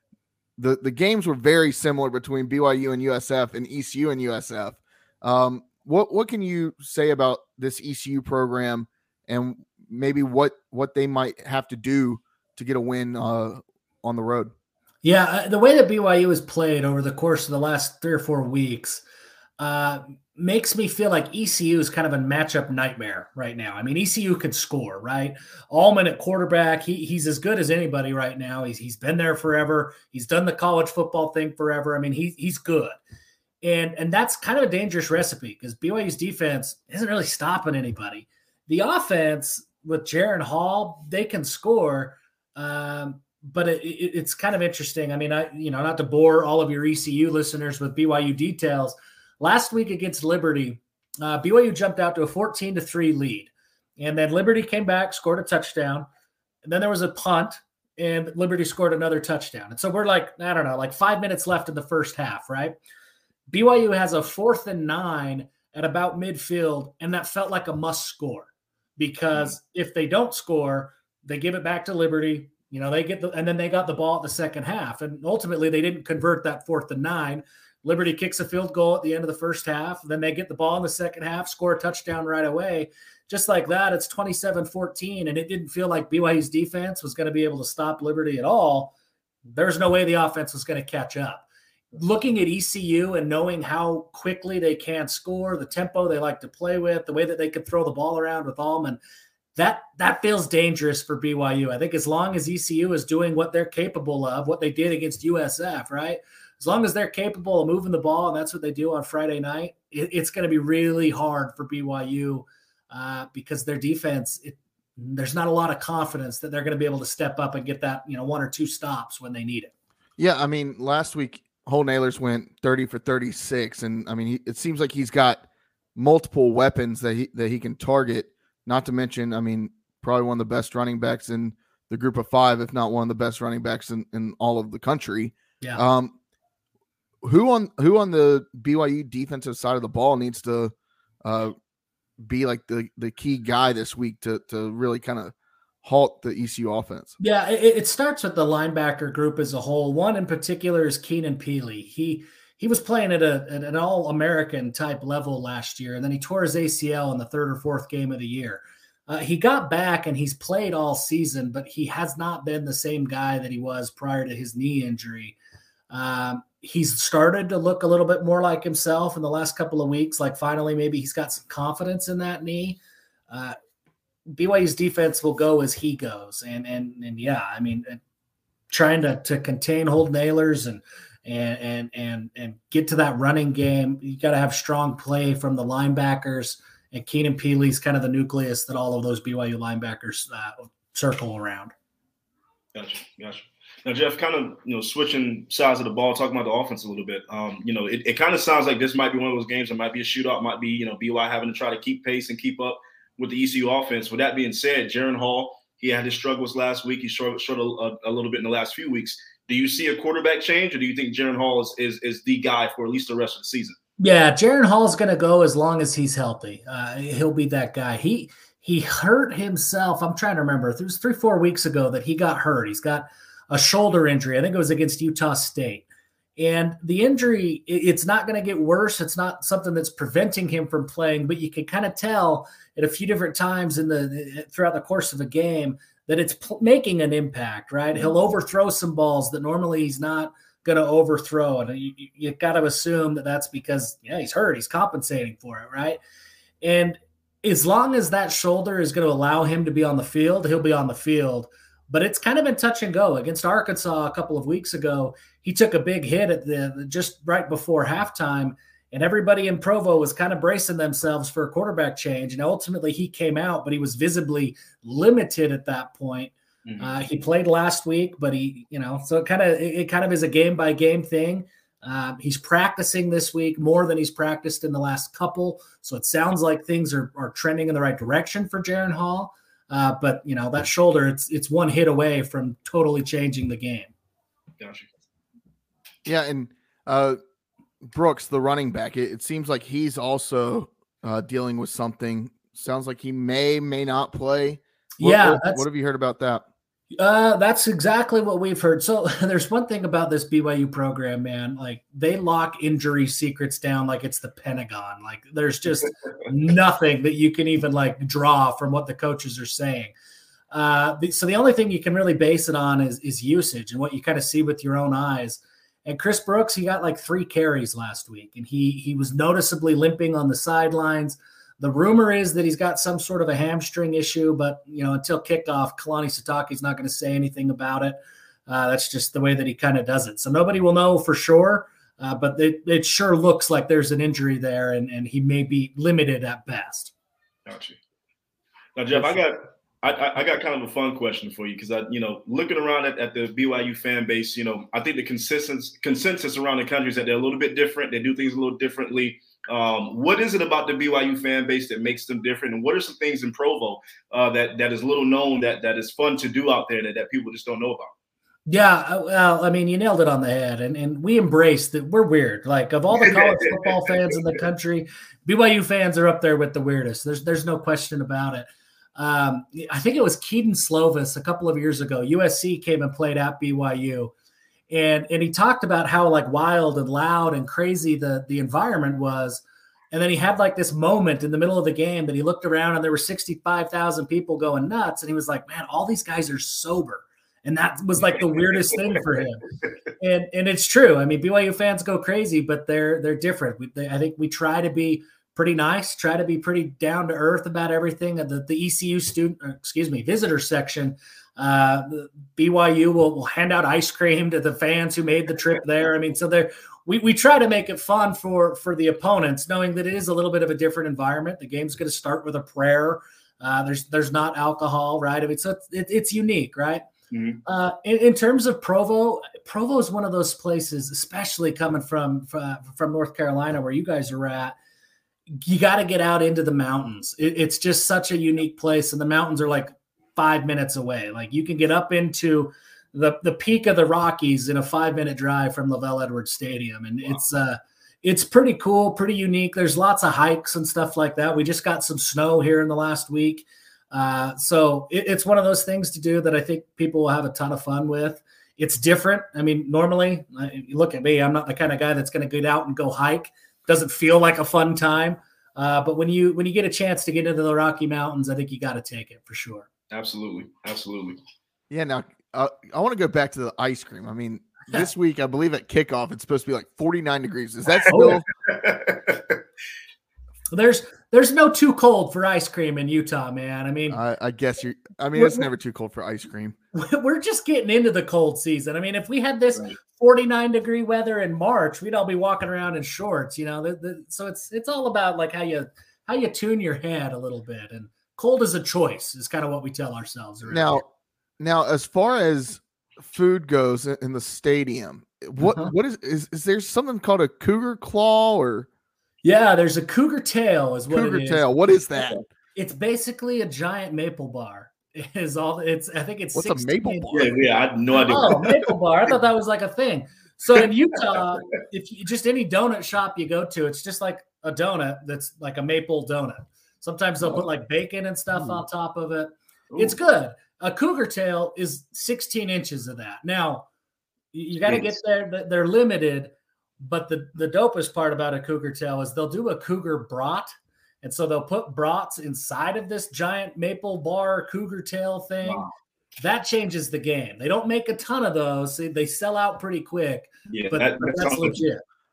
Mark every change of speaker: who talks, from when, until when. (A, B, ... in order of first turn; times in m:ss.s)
0:00.6-0:14.5 A
0:15.0-0:19.0 B
0:19.6-0:33.0 B
0:33.6-0:56.1 B
0:56.6-1:02.8 B
1:03.5-1:28.9 B
1:29.5-1:39.0 B
1:39.6-1:59.7 B
2:00.2-2:16.2 A
2:17.2-2:21.5 A
2:22.2-2:27.2 A
2:27.2-2:45.4 B
2:45.9-2:52.8 B
2:53.3-2:53.6 B
2:54.3-2:58.0 B
2:58.7-3:11.7 B
3:12.8-3:33.8 C
3:34.0-3:45.8 B
3:46.4-4:06.0 B
4:06.6-4:43.9 B
4:26.7-4:27.0 C
4:44.6-4:44.9 C
4:46.0-4:47.2 A
4:47.8-4:56.4 A
4:55.0-4:55.6 B
4:56.9-5:09.9 B
5:10.5-5:36.9 B
5:37.5-5:37.8 C
5:38.8-5:57.9 C
5:58.5-6:14.1 B
6:02.9-6:04.1 C
6:14.7-6:29.4 B
6:30.0-6:56.9 B
6:57.1-6:57.4 C
6:57.4-7:04.6 B
7:05.4-7:39.7 B
7:39.9-7:41.2 C
7:41.7-7:48.3 A
7:47.8-7:49.4 C
7:47.9-7:48.2 B
7:50.5-7:54.0 B
7:53.9-7:56.6 A
7:55.2-7:55.5 B
7:56.7-8:10.8 B
8:10.5-8:10.8 A
8:11.4-8:18.7 A
8:15.4-8:15.7 B
8:19.2-8:21.5 B
8:20.9-8:22.2 A
8:22.6-8:27.4 B
8:26.4-8:27.3 A
8:27.1-8:28.7 C
8:28.0-8:43.7 B
8:38.4-8:38.6 C
8:39.7-8:40.0 C
8:44.3-8:55.7 B
8:44.6-8:45.0 C
8:55.4-8:55.7 C
8:56.2-9:01.8 B
9:00.5-9:01.6 C